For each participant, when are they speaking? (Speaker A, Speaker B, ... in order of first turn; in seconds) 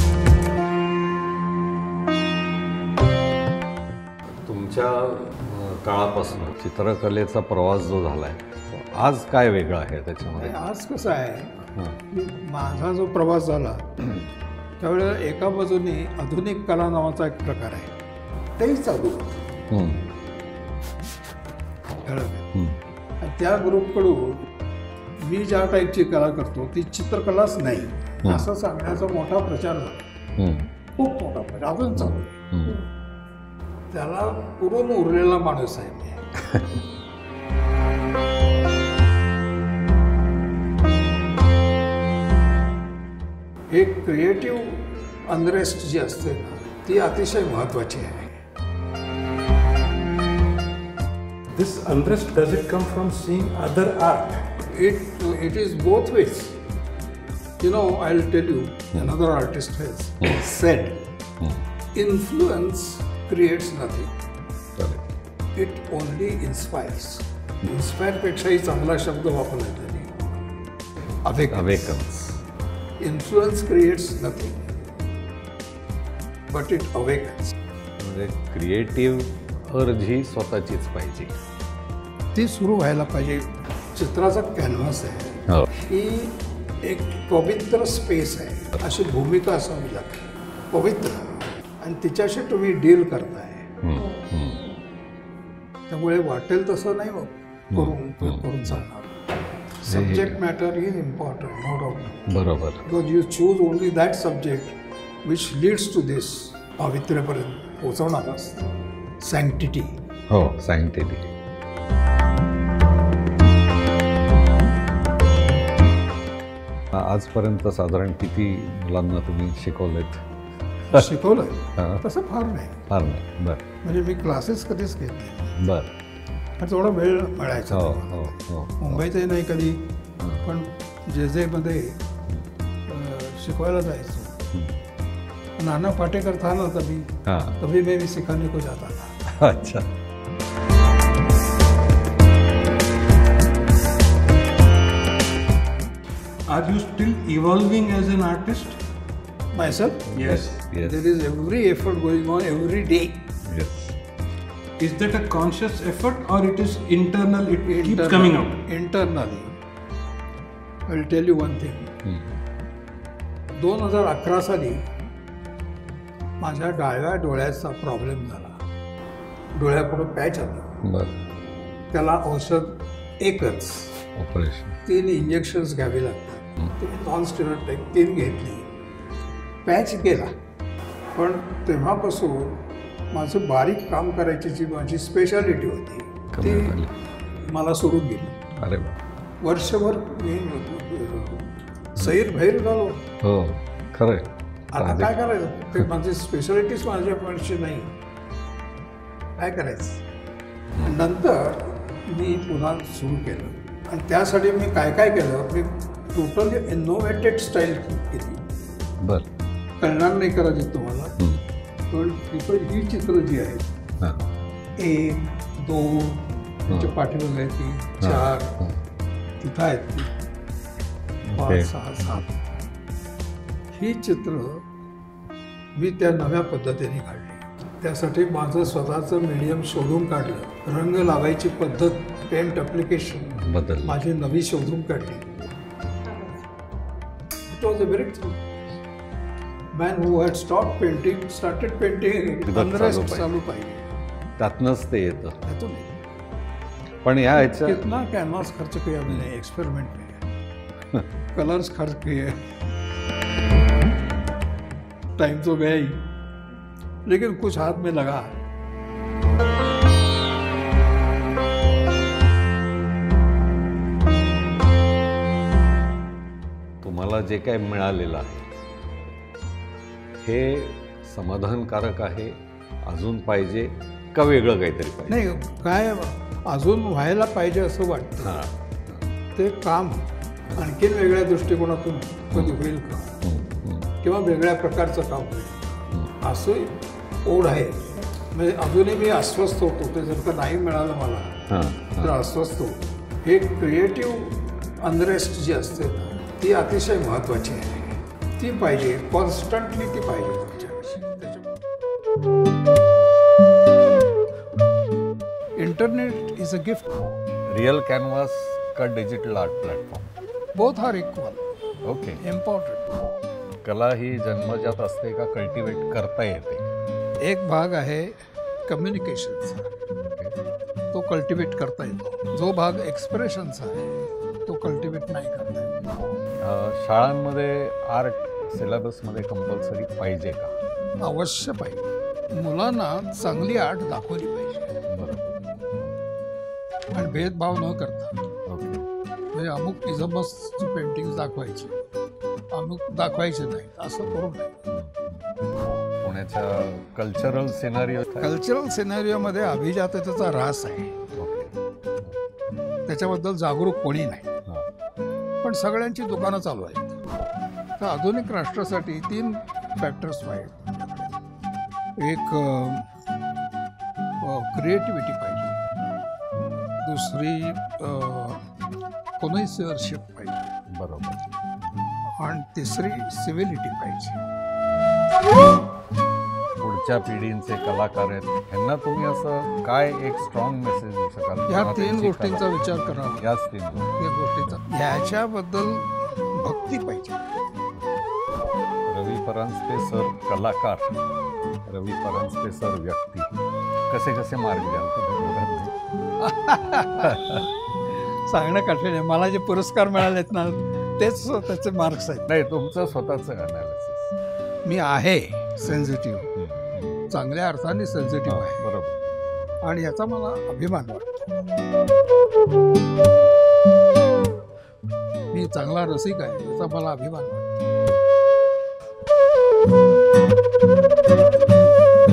Speaker A: 4.3-10.5, 11.6-12.0, 19.7-20.0, 30.4-30.7, 31.9-32.8, 36.5-36.8, 64.8-65.1, 71.5-72.2, 78.0-81.4, 93.8-94.7, 97.7-98.8, 99.9-100.3, 102.3-102.8, 110.3-111.3, 116.9-120.2, 121.8-122.0, 122.9-123.6, 125.6-125.9, 127.7-129.0, 134.5-134.8, 137.2-137.6, 139.4-139.9, 150.1-151.0, 153.4-153.9, 162.0-162.4, 170.8-171.1, 174.2-174.8, 186.3-186.9, 188.6-189.0, 193.2-195.1, 209.0-209.3, 216.7-216.9, 218.0-218.8, 221.2-222.2, 233.4-234.0, 242.4-243.3, 244.4-245.4, 247.0-247.8, 266.8-268.5, 270.2-275.2, 278.2-279.1, 282.3-282.6, 283.2-283.9, 291.5-292.1, 307.5-310.1, 311.8-312.2, 313.6-316.7, 326.4-330.5, 334.9-335.9, 338.4-338.9, 344.7-345.2, 346.0-348.3, 351.1-352.1, 370.7-371.3, 376.6-382.5, 383.1-384.0, 388.9-391.0, 391.6-393.3, 393.9-395.8, 397.0-397.4, 402.3-404.1, 406.4-407.0, 408.3-409.0
Speaker B: 10.4-11.6, 12.1-14.2, 14.8-17.9, 18.6-19.4, 22.0-22.5, 23.2-24.4, 25.2-30.0, 31.0-32.4, 33.9-36.2, 43.7-48.4, 54.7-56.6, 57.6-61.0, 61.9-64.1, 65.5-70.3, 71.2-72.1, 73.0-74.7, 76.5-77.5, 82.3-93.7, 95.9-99.2, 99.8-102.3, 102.8-108.6, 109.2-110.0, 120.9-122.9, 123.8-125.5, 126.6-129.8, 130.4-132.0, 132.9-134.4, 135.6-139.4, 149.5-153.3, 157.7-159.5, 160.9-161.9, 163.6-164.9, 166.4-168.6, 169.5-170.7, 171.9-174.0, 174.8-178.7, 179.7-180.3, 181.1-186.8, 187.5-188.4, 189.4-193.1, 194.7-197.9, 199.4-200.0, 200.8-208.4, 209.8-211.1, 211.9-213.7, 214.8-218.5, 219.4-220.1, 221.3-222.3, 223.7-224.6, 225.7-235.2, 237.5-238.4, 239.7-243.8, 245.4-246.0, 247.3-250.2, 251.3-252.4, 255.2-256.0, 257.1-258.4, 275.1-278.5, 279.4-283.1, 284.0-291.3, 292.0-301.5, 305.6-307.0, 310.5-311.4, 312.2-313.0, 317.2-319.7, 320.9-323.9, 324.4-325.9, 331.0-334.7, 336.9-338.1, 339.3-341.8, 342.5-344.6, 348.2-350.9, 352.9-354.3, 355.4-356.9, 357.8-361.1, 362.0-362.9, 364.2-365.6, 366.8-368.4, 369.2-370.5, 372.2-374.2, 381.5-383.2, 384.0-387.4, 396.2-397.5, 398.2-402.3, 404.6-406.3, 407.1-408.7, 409.6-411.4, 415.3-417.5
Speaker C: 51.5-54.5, 146.5-148.8, 150.2-150.5, 154.8-158.6